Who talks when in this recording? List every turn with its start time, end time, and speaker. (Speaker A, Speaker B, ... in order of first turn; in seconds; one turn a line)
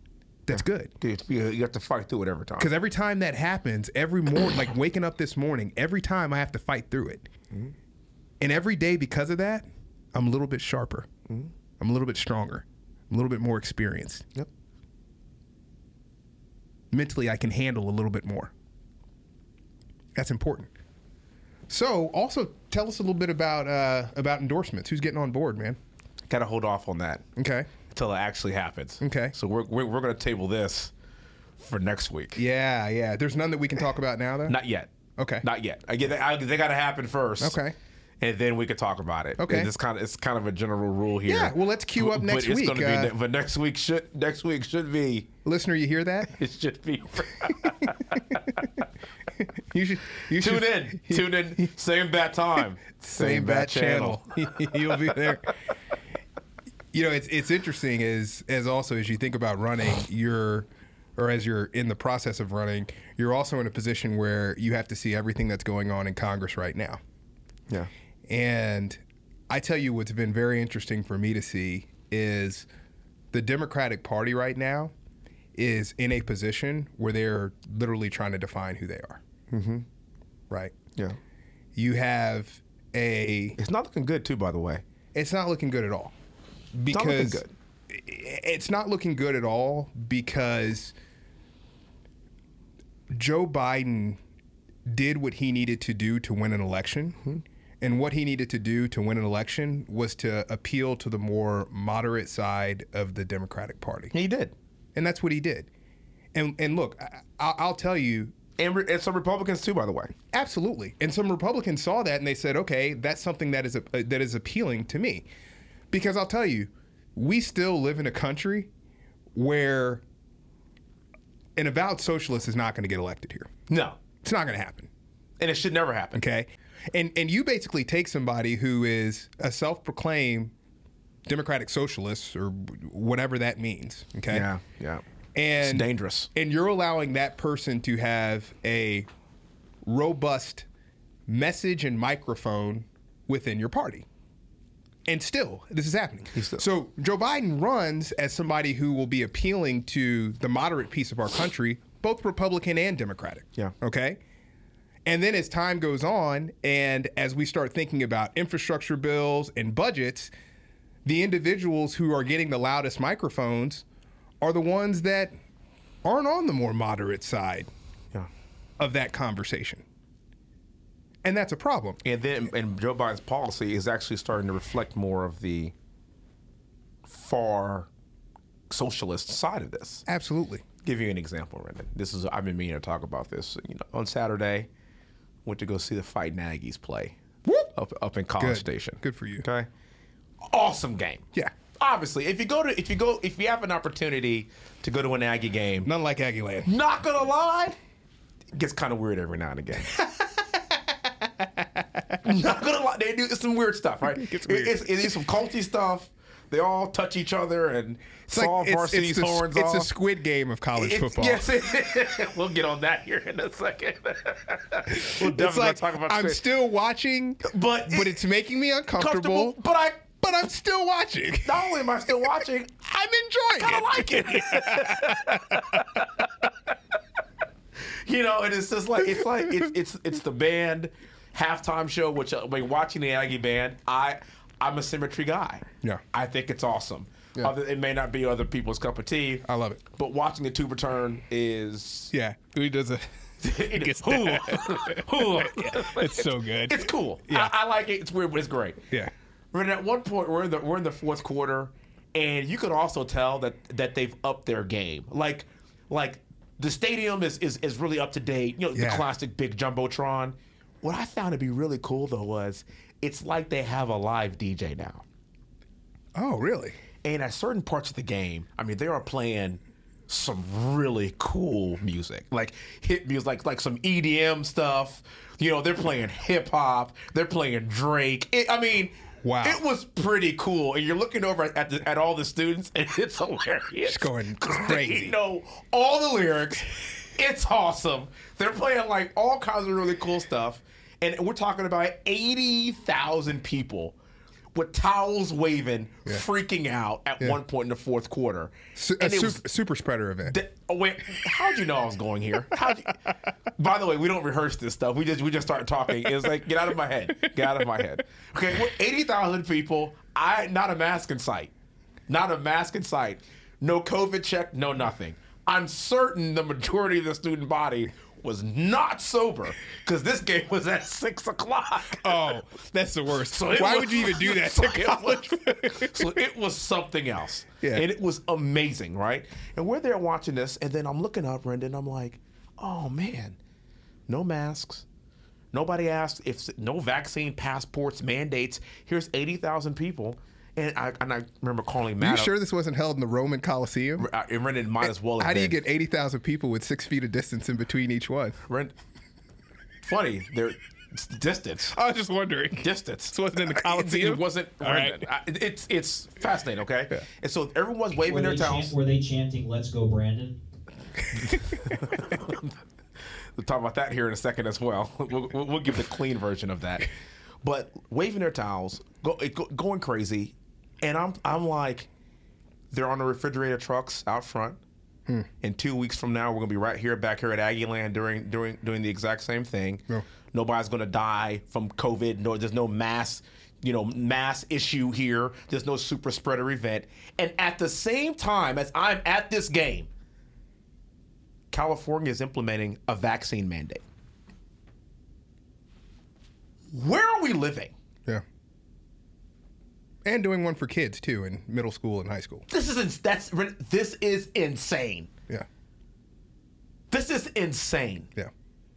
Speaker A: 0.5-0.9
Speaker B: 0.5-2.7
Speaker A: 2.6-7.3
Speaker A: 8.4-11.1
Speaker A: 11.8-14.3
Speaker A: 16.9-18.5
Speaker A: 20.1-20.7
Speaker A: 21.7-25.8
Speaker B: 26.3-27.2
Speaker A: 27.4-27.7
Speaker B: 27.9-30.9
Speaker A: 29.0-29.4
Speaker B: 31.6-32.4
Speaker A: 32.4-34.6
Speaker B: 34.5-37.6
Speaker A: 35.2-35.5
Speaker A: 37.4-37.8
Speaker B: 38.2-45.3
Speaker A: 39.4-39.7
Speaker A: 41.3-43.1
Speaker A: 45.5-46.3
Speaker B: 46.3-48.7
Speaker A: 49.4-51.5
Speaker B: 50.3-55.1
Speaker A: 53.0-55.5
Speaker A: 56.9-67.0
Speaker A: 68.3-72.7
Speaker A: 73.3-74.9
Speaker A: 75.5-79.2
Speaker B: 79.5-79.8
Speaker A: 81.8-83.6
Speaker B: 83.6-84.8
Speaker A: 85.1-86.1
Speaker A: 86.7-90.9
Speaker B: 86.9-87.5
Speaker A: 93.1-94.2
Speaker A: 94.9-97.2
Speaker A: 97.8-104.1
Speaker B: 104.1-104.5
Speaker A: 105.0-105.7
Speaker A: 106.3-108.3
Speaker B: 108.6-110.1
Speaker A: 110.3-115.2
Speaker A: 115.9-118.7
Speaker A: 119.3-120.0
Speaker A: 121.6-123.5
Speaker B: 123.7-124.0
Speaker A: 124.2-124.9
Speaker B: 125.4-126.2
Speaker A: 126.2-130.5
Speaker A: 131.3-134.5
Speaker B: 134.3-135.0
Speaker A: 135.3-139.1
Speaker B: 135.6-136.3
Speaker A: 139.8-140.7
Speaker A: 141.3-144.1
Speaker A: 145.1-154.2
Speaker B: 146.3-146.6
Speaker A: 155.1-160.3
Speaker A: 161.1-163.8
Speaker A: 164.4-165.3
Speaker A: 166.0-167.7
Speaker A: 168.8-169.8
Speaker A: 171.2-172.0
Speaker B: 172.0-175.7
Speaker B: 177.1-177.9
Speaker B: 178.7-180.1
Speaker A: 180.1-180.6
Speaker B: 180.8-184.7
Speaker B: 185.5-187.2
Speaker A: 187.4-187.7
Speaker B: 187.7-189.7
Speaker A: 188.4-189.4
Speaker B: 190.4-195.9
Speaker A: 195.8-196.7
Speaker B: 196.7-197.8
Speaker B: 198.5-199.9
Speaker A: 199.9-201.8
Speaker B: 202.2-209.9
Speaker A: 204.1-205.2
Speaker A: 208.3-211.5
Speaker B: 210.8-216.4
Speaker A: 214.9-219.6
Speaker B: 217.4-218.2
Speaker B: 219.0-220.1
Speaker A: 220.2-225.8
Speaker B: 221.4-222.7
Speaker B: 223.6-226.2
Speaker B: 227.8-242.1
Speaker A: 239.4-239.8
Speaker A: 242.1-243.1
Speaker B: 243.4-248.8
Speaker A: 243.6-247.5
Speaker B: 249.5-265.0
Speaker A: 258.8-259.1
Speaker A: 266.2-266.8
Speaker B: 267.0-294.0
Speaker A: 279.2-279.6
Speaker A: 283.9-285.1
Speaker B: 294.6-299.4
Speaker A: 298.8-300.4
Speaker B: 300.3-311.5
Speaker B: 312.1-322.2
Speaker A: 321.9-326.1
Speaker B: 323.2-333.4
Speaker B: 334.1-334.9
Speaker B: 335.5-342.3
Speaker A: 342.0-344.1
Speaker B: 344.0-345.6
Speaker A: 345.2-348.4
Speaker B: 348.5-348.7
Speaker B: 349.8-351.8
Speaker A: 351.7-355.1
Speaker B: 352.6-358.7
Speaker C: 358.1-360.4
Speaker A: 361.1-361.9
Speaker B: 361.2-362.5
Speaker B: 363.4-366.9
Speaker B: 367.4-371.9
Speaker B: 372.7-374.6
Speaker B: 375.4-389.9
Speaker B: 391.5-393.8
Speaker B: 396.7-397.7
Speaker A: 400.1-402.5
Speaker B: 402.5-405.1
Speaker B: 406.9-408.1